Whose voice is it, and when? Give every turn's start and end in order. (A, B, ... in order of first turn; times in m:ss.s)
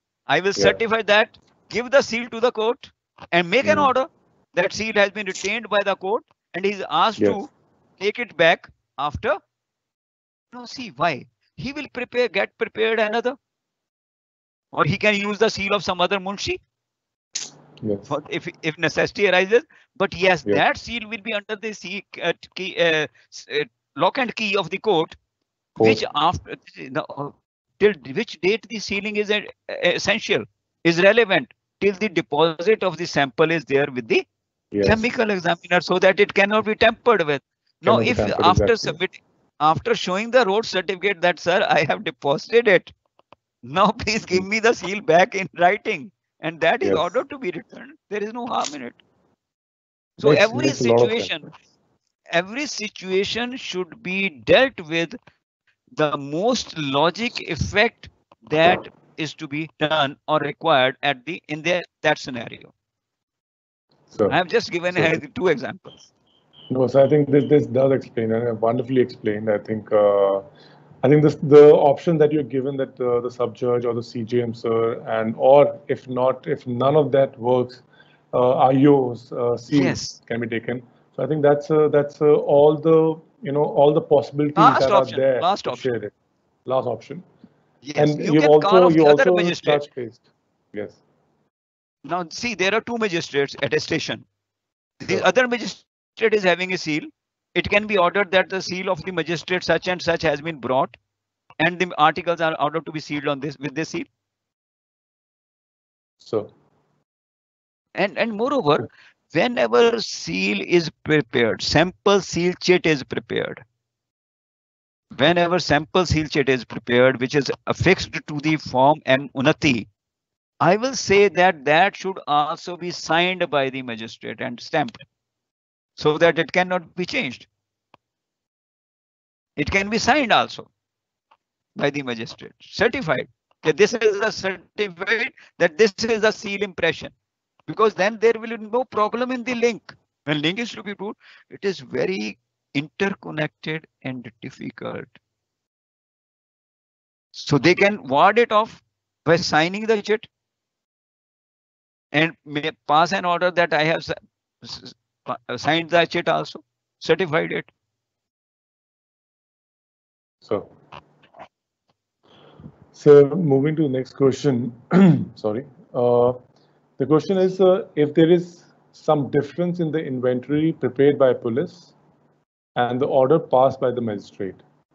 0:00.3-0:09.4 A
0:03.6-0:03.9 B
0:07.2-0:07.4 B
0:10.5-0:13.4 A
0:14.7-0:16.6 A
0:17.8-0:18.1 B
0:18.1-0:25.2 A
0:25.8-0:26.0 B
0:25.8-0:34.2 A
0:34.7-0:35.0 B
0:34.8-0:42.9 A
0:37.8-0:39.0 B
0:43.6-0:49.0 A
0:50.2-0:51.5 A
0:50.2-0:51.5 B
0:52.3-0:55.2 A
0:56.0-1:02.7 A
1:04.1-1:04.3 B
1:04.3-1:06.0 A
1:04.9-1:05.2 B
1:06.7-1:10.4 B
1:11.0-1:26.1 B
1:19.7-1:20.2 A
1:24.6-1:25.9 A
1:26.6-1:27.2 B
1:27.8-1:29.8 A
1:28.0-1:31.0 B
1:32.0-1:34.3 A
1:35.0-1:40.9 A
1:41.6-1:44.1 A
1:46.2-1:46.5 B
1:47.9-1:53.6 A
1:55.2-1:59.9 A
2:00.6-2:05.0 A
2:06.0-2:07.5 A
2:09.6-2:10.7 A
2:11.8-2:17.1 A
2:17.7-2:25.1 A
2:27.3-2:30.3 A
2:32.1-2:37.7 A
2:40.4-2:40.7 B
2:42.9-2:46.4 B
2:47.0-2:51.9 B
2:52.8-2:54.6 B